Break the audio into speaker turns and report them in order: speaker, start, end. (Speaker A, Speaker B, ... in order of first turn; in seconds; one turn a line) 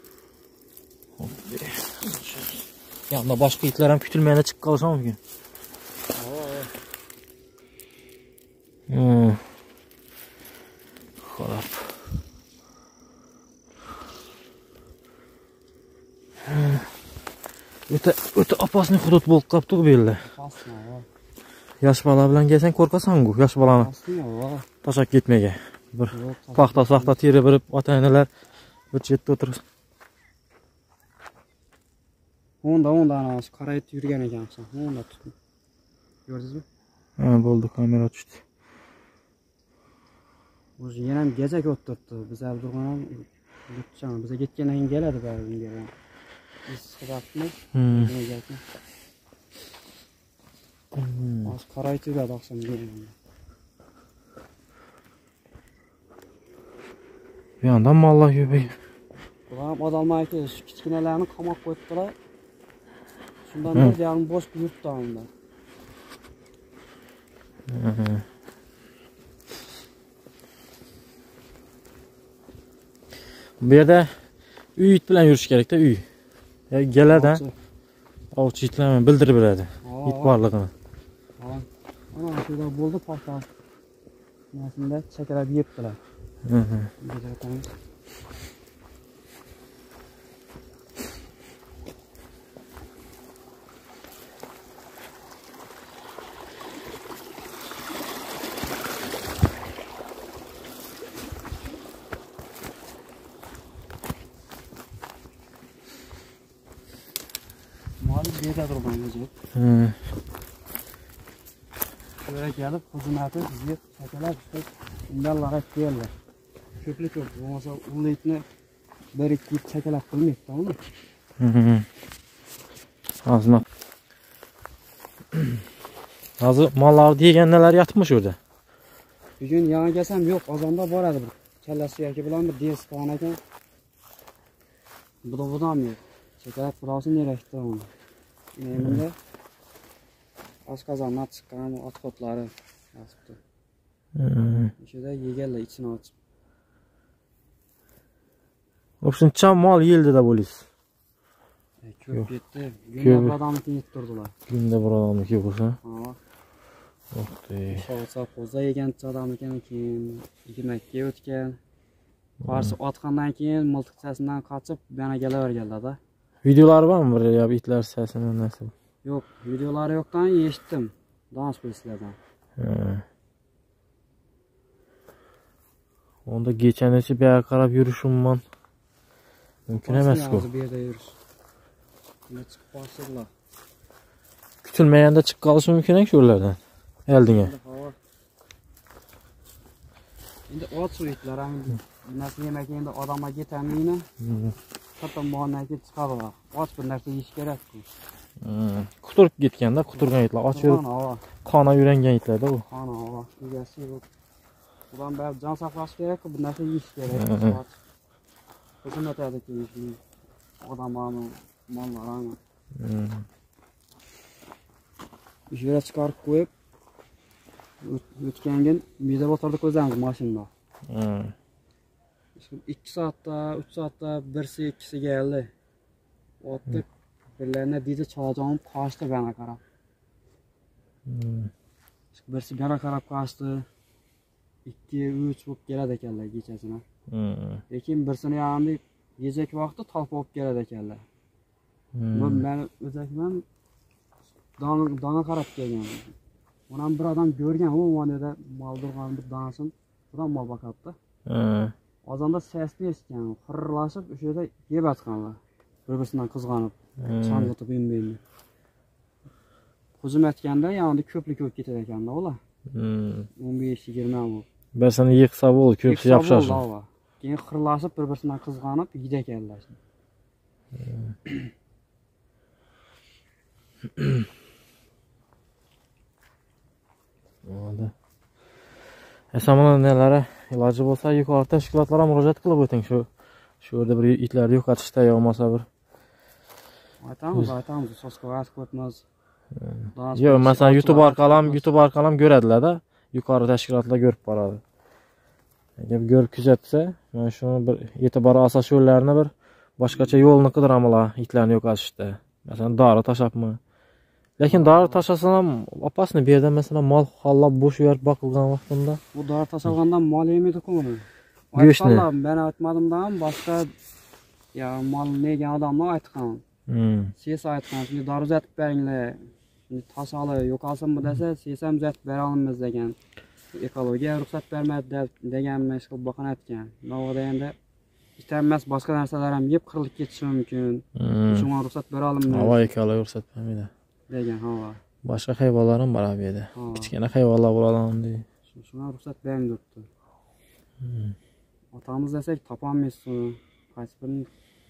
Speaker A: 1.2-2.4
Speaker A: 3.1-5.2
Speaker B: 6.1-6.7
Speaker A: 8.9-9.4
Speaker A: 11.2-12.0
Speaker A: 16.4-16.9
Speaker A: 17.9-20.3
Speaker B: 20.2-21.1
Speaker A: 21.8-23.9
Speaker B: 23.7-24.7
Speaker A: 24.8-28.3
Speaker B: 26.1-27.2
Speaker A: 28.9-29.6
Speaker B: 32.6-35.3
Speaker B: 36.3-36.6
Speaker A: 37.2-38.4
Speaker B: 40.8-45.9
Speaker B: 46.7-48.6
Speaker A: 47.7-48.1
Speaker A: 50.9-51.5
Speaker B: 51.5-53.1
Speaker A: 57.6-58.7
Speaker B: 59.5-62.2
Speaker B: 63.5-65.3
Speaker A: 67.7-68.2
Speaker A: 73.6-74.1
Speaker A: 74.8-76.0
Speaker A: 76.7-77.4
Speaker B: 77.1-77.5
Speaker A: 78.3-80.7
Speaker B: 79.8-80.4
Speaker B: 81.4-83.5
Speaker B: 84.5-86.0
Speaker A: 86.5-86.9
Speaker B: 87.0-87.7
Speaker B: 108.0-109.3
Speaker A: 109.5-110.0
Speaker B: 112.2-116.1
Speaker B: 116.8-118.5
Speaker B: 119.1-120.8
Speaker A: 121.4-121.9
Speaker A: 123.2-123.7
Speaker A: 126.4-128.4
Speaker B: 129.4-133.4
Speaker B: 135.2-137.9
Speaker B: 138.6-139.2
Speaker A: 138.8-139.0
Speaker B: 140.7-143.4
Speaker A: 144.2-144.7
Speaker B: 144.8-146.1
Speaker A: 149.0-150.7
Speaker B: 151.8-154.3
Speaker A: 153.0-153.4
Speaker A: 154.5-155.8
Speaker B: 155.8-156.2
Speaker A: 157.1-157.8
Speaker B: 157.7-161.6
Speaker A: 162.4-162.7
Speaker B: 162.4-166.0
Speaker A: 166.4-168.7
Speaker B: 169.0-172.2
Speaker A: 172.6-173.0
Speaker A: 176.3-178.4
Speaker A: 179.7-180.5
Speaker B: 179.8-181.2
Speaker B: 182.3-183.3
Speaker A: 184.6-187.5
Speaker B: 187.2-188.0
Speaker B: 190.5-194.1
Speaker A: 194.2-194.6
Speaker B: 195.0-197.9
Speaker A: 198.4-200.8
Speaker B: 200.0-201.2
Speaker A: 201.4-202.6
Speaker B: 202.7-204.1
Speaker B: 204.9-207.7
Speaker A: 207.1-207.6
Speaker B: 208.8-210.0
Speaker B: 210.6-212.4
Speaker A: 212.8-213.2
Speaker B: 215.5-216.5
Speaker B: 217.8-220.5
Speaker A: 220.9-221.3
Speaker B: 222.4-225.5
Speaker B: 226.4-226.9
Speaker B: 227.4-229.6
Speaker A: 231.1-231.5
Speaker B: 232.1-233.7
Speaker B: 234.7-236.8
Speaker A: 237.1-237.6
Speaker B: 237.7-241.0
Speaker A: 241.9-242.4
Speaker B: 242.1-243.4
Speaker B: 244.6-246.1
Speaker B: 246.7-251.0
Speaker A: 251.3-251.7
Speaker B: 252.1-258.2
Speaker A: 257.0-257.5
Speaker B: 260.0-262.4
Speaker A: 262.7-263.3
Speaker B: 263.4-264.4
Speaker A: 264.8-266.6
Speaker B: 265.8-269.8
Speaker A: 277.4-277.9
Speaker A: 279.3-283.1
Speaker A: 283.6-285.7
Speaker B: 287.0-289.0
Speaker A: 289.6-294.6
Speaker B: 289.9-291.7
Speaker A: 295.8-303.6
Speaker B: 299.9-300.2
Speaker A: 304.4-309.0
Speaker B: 304.4-305.0
Speaker B: 309.1-313.7
Speaker A: 311.6-312.1
Speaker B: 314.5-316.4
Speaker A: 316.7-317.1
Speaker B: 317.2-323.0
Speaker B: 323.5-327.6
Speaker B: 328.2-332.7
Speaker A: 331.0-331.5
Speaker A: 332.3-333.7
Speaker B: 334.1-334.8
Speaker A: 335.0-338.2
Speaker B: 336.5-336.9
Speaker B: 338.5-339.9
Speaker A: 340.8-341.1
Speaker B: 341.7-344.3